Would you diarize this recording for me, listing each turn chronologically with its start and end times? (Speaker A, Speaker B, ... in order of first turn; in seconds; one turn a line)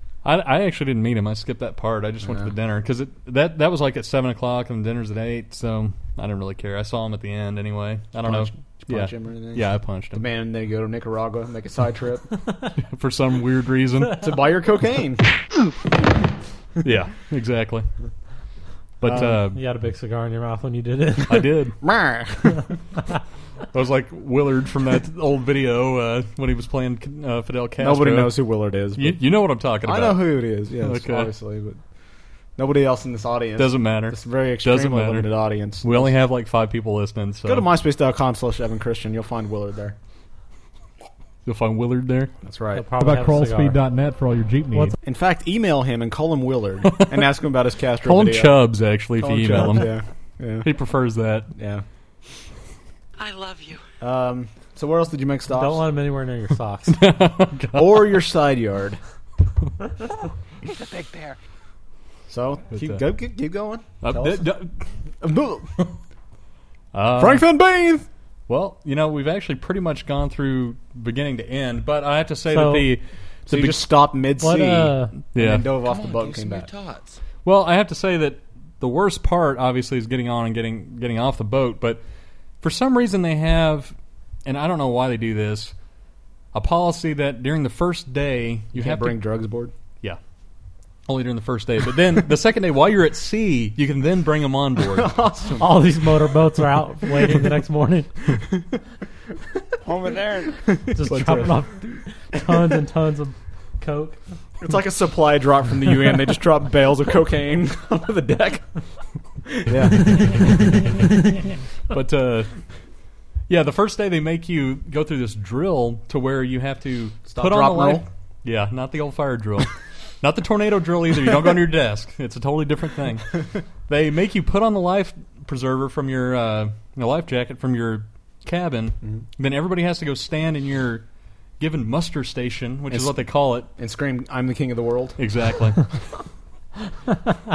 Speaker A: 0.2-10.2
Speaker B: 2.2-2.5
Speaker B: 8.2-12.3
Speaker A: 12.9-14.3
Speaker B: 14.2-15.2
Speaker A: 16.8-17.9
Speaker A: 19.0-19.6
Speaker B: 19.0-19.4
Speaker C: 19.5-21.5
Speaker A: 21.3-21.8
Speaker B: 21.8-22.6
Speaker A: 23.7-28.4
Speaker B: 27.8-29.2
Speaker A: 28.9-31.3
Speaker B: 29.8-31.8
Speaker B: 32.6-36.1
Speaker A: 33.6-37.7
Speaker B: 37.5-40.0
Speaker A: 41.5-42.3
Speaker B: 42.4-42.8
Speaker C: 42.7-43.8
Speaker D: 43.0-45.0
Speaker B: 45.0-48.6
Speaker A: 46.9-47.3
Speaker A: 48.0-50.0
Speaker B: 49.2-50.7
Speaker A: 50.6-51.5
Speaker B: 51.5-51.8
Speaker E: 53.2-53.8
Speaker B: 54.0-55.8
Speaker C: 55.5-57.0
Speaker A: 56.9-58.2
Speaker B: 57.7-59.0
Speaker E: 60.7-61.4
Speaker B: 62.3-64.5
Speaker A: 62.7-63.0
Speaker A: 64.0-64.7
Speaker B: 65.2-65.8
Speaker A: 66.9-67.5
Speaker B: 67.2-68.0
Speaker A: 68.5-73.9
Speaker C: 72.5-72.9
Speaker B: 73.5-76.7
Speaker C: 74.4-75.1
Speaker A: 75.3-75.7
Speaker E: 75.8-77.1
Speaker A: 77.4-82.0
Speaker A: 82.6-83.9
Speaker A: 84.5-85.7
Speaker A: 86.5-89.2
Speaker B: 88.7-89.7
Speaker A: 91.1-95.1
Speaker B: 94.9-95.9
Speaker C: 95.6-98.1
Speaker B: 100.7-101.5
Speaker C: 100.9-104.2
Speaker B: 104.6-108.6
Speaker B: 109.6-110.5
Speaker A: 111.9-112.5
Speaker A: 113.5-131.1
Speaker B: 117.3-118.1
Speaker A: 131.6-133.7
Speaker B: 132.9-133.2
Speaker B: 133.8-135.2
Speaker A: 135.2-135.9